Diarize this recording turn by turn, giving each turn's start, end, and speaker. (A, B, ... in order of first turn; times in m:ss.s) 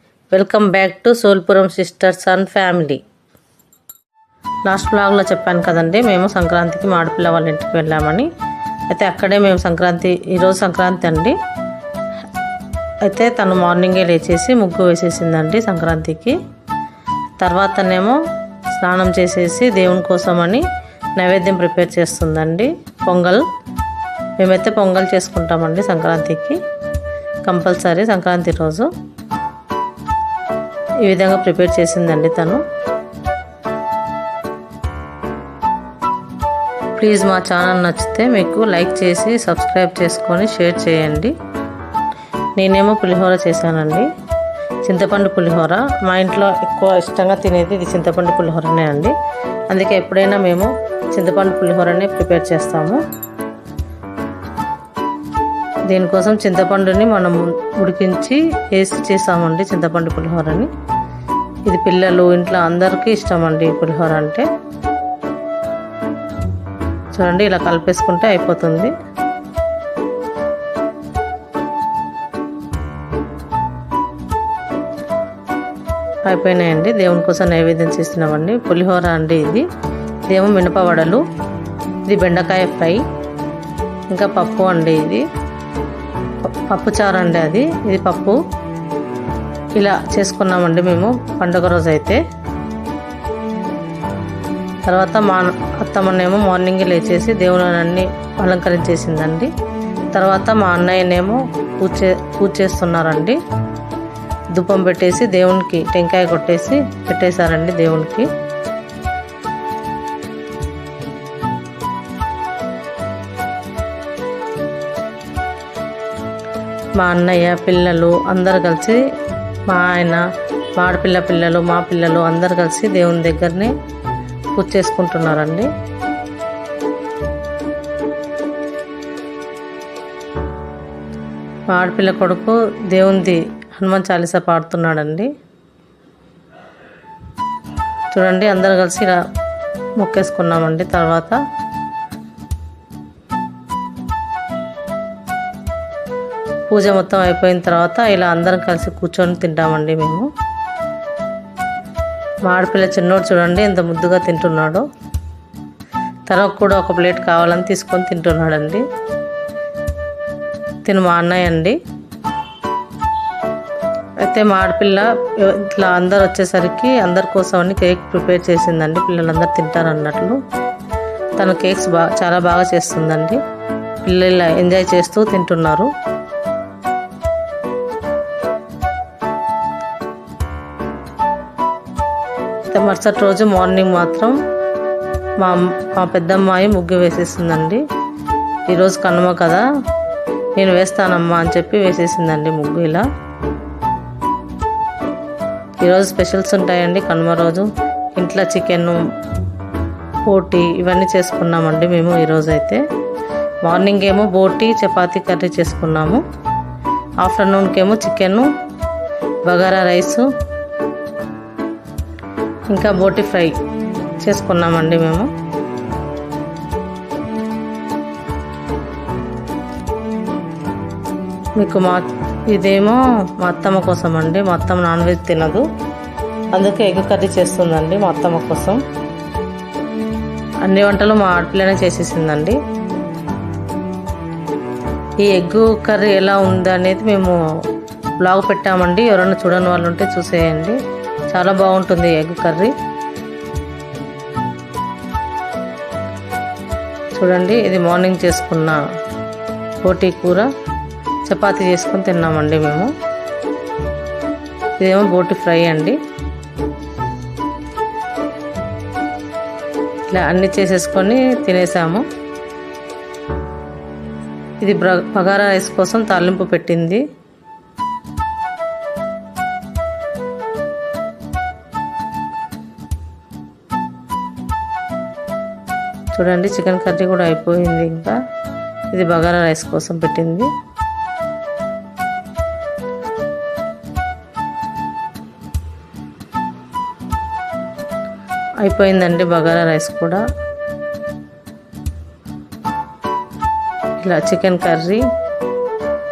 0:00.3-0:03.0 A
0:04.6-0:08.3 A
0:08.9-0:11.4 A
0:13.0-0:16.4 A
0:17.4-0:18.2 A
0:18.7-0:20.6 A
0:21.2-0:23.4 A
0:24.4-0:26.6 A
0:27.4-0:28.9 A
0:31.0-0:32.6 A
0:37.0-0:41.3 A
0:42.6-0:44.1 A
0:44.8-0:49.1 A
0:49.7-0:53.0 A
0:55.9-1:00.7 A
1:01.7-1:04.5 A
1:07.1-1:08.9 A
1:16.2-1:19.6 A
1:20.3-1:21.2 A
1:22.1-1:23.0 A
1:24.1-1:25.2 A
1:26.4-1:28.4 A
1:29.8-1:32.2 A
1:34.9-1:39.5 A
1:40.1-1:43.4 A
1:44.5-1:48.3 A
1:57.0-1:59.0 A
1:59.7-2:00.2 A
2:00.8-2:03.7 A
2:04.5-2:05.7 A
2:11.7-2:15.3 A
2:18.1-2:19.2 A
2:20.0-2:21.4 A
2:26.7-2:30.3 A
2:32.5-2:34.8 A
2:36.3-2:38.8 A
2:40.8-2:41.8 A
2:44.2-2:50.4 A
2:51.4-2:53.4 A
2:54.0-2:55.9 A
3:02.7-3:04.3 A
3:05.4-3:07.8 A
3:08.7-3:09.6 A
3:10.6-3:13.0 A
3:15.8-3:19.0 A
3:20.3-3:22.8 A
3:23.6-3:26.2 A
3:27.2-3:28.5 A
3:29.4-3:30.3 A
3:32.7-3:33.5 A
3:34.2-3:35.3 A
3:41.6-3:45.6 A
3:46.5-3:48.8 A
3:50.6-3:52.6 A
3:55.2-3:57.4 A
3:58.2-4:00.8 A
4:01.3-4:02.7 A
4:07.2-4:08.8 A
4:09.8-4:10.5 A
4:11.3-4:12.9 A
4:14.8-4:16.0 A
4:20.1-4:22.0 A
4:24.6-4:27.0 A
4:36.1-4:38.2 A
4:38.9-4:40.5 A
4:48.6-4:50.2 A
4:54.0-4:55.0 A